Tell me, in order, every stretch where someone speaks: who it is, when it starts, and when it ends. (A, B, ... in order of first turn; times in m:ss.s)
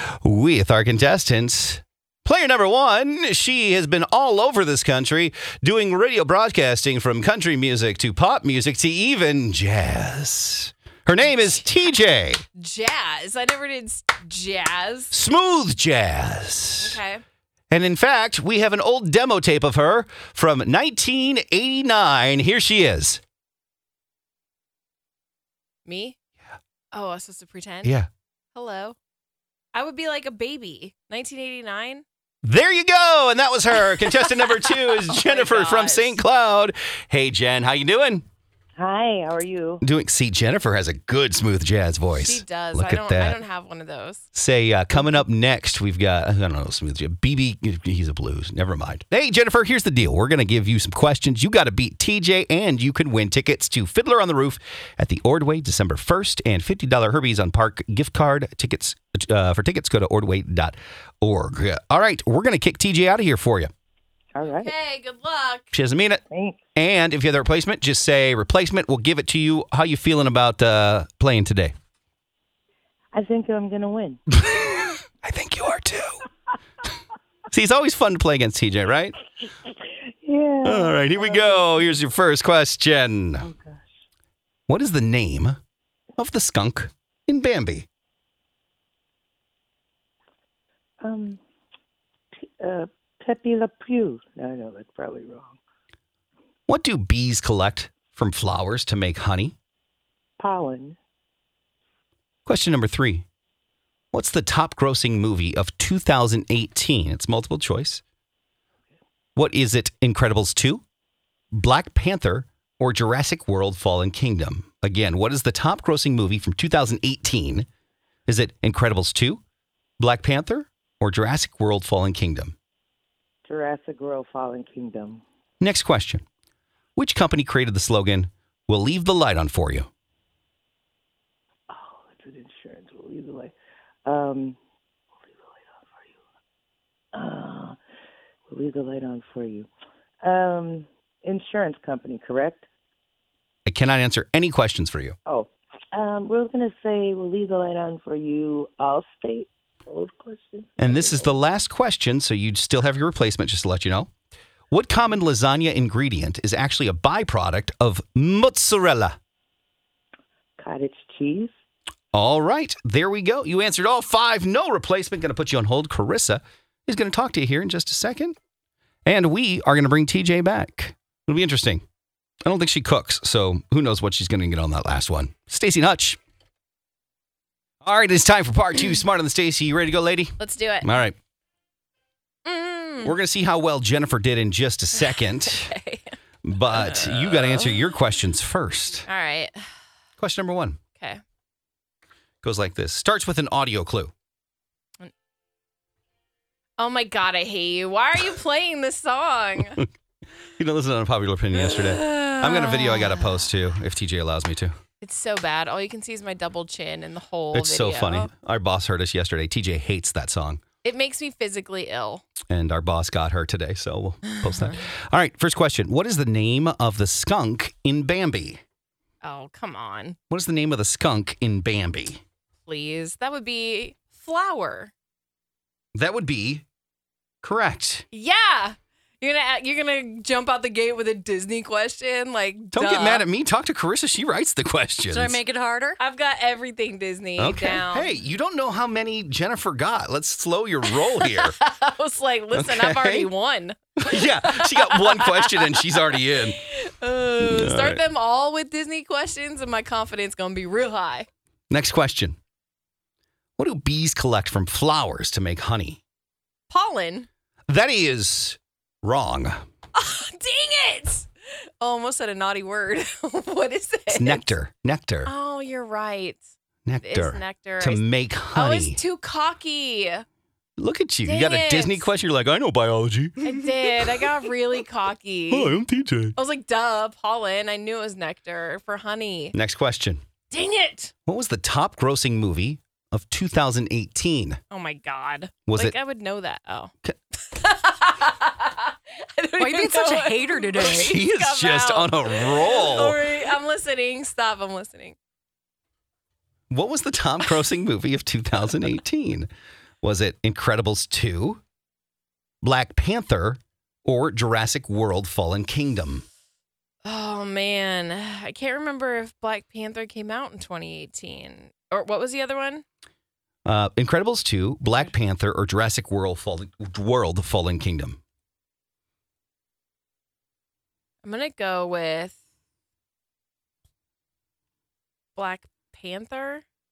0:00.2-0:12.4 A
0:12.6-0:15.1 B
0:15.1-0:17.0 A
0:16.8-0:17.2 B
0:17.7-0:23.2 A
0:25.9-0:26.2 B
0:26.9-0:27.9 B
0:28.6-0:29.0 B
0:29.7-0:32.0 B
0:32.4-0:38.2 A
0:34.0-0:36.2 B
0:38.8-0:39.8 C
0:39.8-0:43.4 A
0:42.1-0:44.3 B
0:44.3-1:03.7 A
1:04.3-1:04.7 C
1:04.6-1:05.7 B
1:05.7-1:06.2 A
1:06.3-1:06.6 C
1:06.7-1:11.7 A
1:13.1-1:14.2 C
1:14.4-1:16.2 A
1:17.5-1:19.2 A
1:20.2-1:21.8 C
1:20.6-1:23.5 A
1:23.4-1:23.8 C
1:24.7-1:25.6 A
1:26.2-1:27.9 A
1:31.0-1:31.4 C
1:32.3-1:35.6 C
1:36.7-1:39.6 A
1:40.4-1:41.0 C
1:42.4-1:43.2 A
1:44.1-1:48.0 A
1:49.4-1:50.8 A
1:51.5-1:57.7 A
1:58.3-1:59.4 A
2:00.0-2:02.6 A
2:03.5-2:05.2 C
2:05.6-2:06.2 A
2:07.0-2:09.9 A
2:11.7-2:13.5 C
2:14.1-2:14.6 C
2:17.1-2:17.8 C
2:18.5-2:19.7 C
2:20.2-2:22.7 C
2:23.7-2:25.2 A
2:25.2-2:31.4 C
2:30.8-2:34.1 A
2:34.7-2:39.2 A
2:40.6-2:41.5 C
2:42.1-2:48.4 A
2:49.1-2:51.8 A
2:52.4-2:56.2 A
2:57.8-3:01.2 A
3:00.4-3:01.0 B
3:02.5-3:03.2 B
3:03.0-3:05.7 A
3:05.0-3:06.1 B
3:06.4-3:09.1 A
3:06.7-3:08.0 B
3:09.1-3:09.6 B
3:10.2-3:10.8 A
3:12.4-3:14.1 A
3:16.8-3:19.8 B
3:20.6-3:24.8 A
3:21.6-3:23.5 B
3:25.0-3:28.3 B
3:27.5-3:30.6 A
3:30.8-3:32.2 B
3:32.5-3:38.6 A
3:34.4-3:34.8 B
3:39.2-3:40.2 B
3:40.3-3:42.2 A
3:42.7-3:44.9 B
3:46.0-3:46.7 A
3:47.4-3:48.1 A
3:48.1-3:53.2 B
3:52.7-3:55.4 A
3:55.1-3:56.0 D
3:56.0-3:58.2 B
3:57.4-4:01.6 A
4:01.0-4:11.3 B
4:02.5-4:03.3 A
4:04.0-4:06.6 A
4:07.4-4:08.0 A
4:11.7-4:12.4 A
4:13.6-4:16.0 A
4:16.7-4:17.3 B
4:17.7-4:19.6 A
4:19.9-4:21.3 B
4:21.8-4:24.5 B
4:24.1-4:25.3 A
4:25.2-4:26.4 B
4:26.9-4:29.0 A
4:27.0-4:28.0 B
4:28.5-4:30.2 B
4:30.8-4:34.2 A
4:31.2-4:32.1 B
4:33.4-4:35.7 B
4:35.5-4:36.4 A
4:36.4-4:39.6 B
4:39.5-4:40.2 A
4:40.5-4:41.1 B
4:41.2-4:44.6 A
4:44.7-4:46.9 B
4:45.7-4:46.0 A
4:47.4-4:55.2 B
4:49.6-4:51.1 D
4:50.8-4:53.2 A
4:56.7-4:59.5 A
5:00.0-5:01.6 A
5:02.6-5:06.2 A
5:07.0-5:12.8 B
5:13.7-5:18.2 A
5:21.2-5:22.4 B
5:25.4-5:26.6 B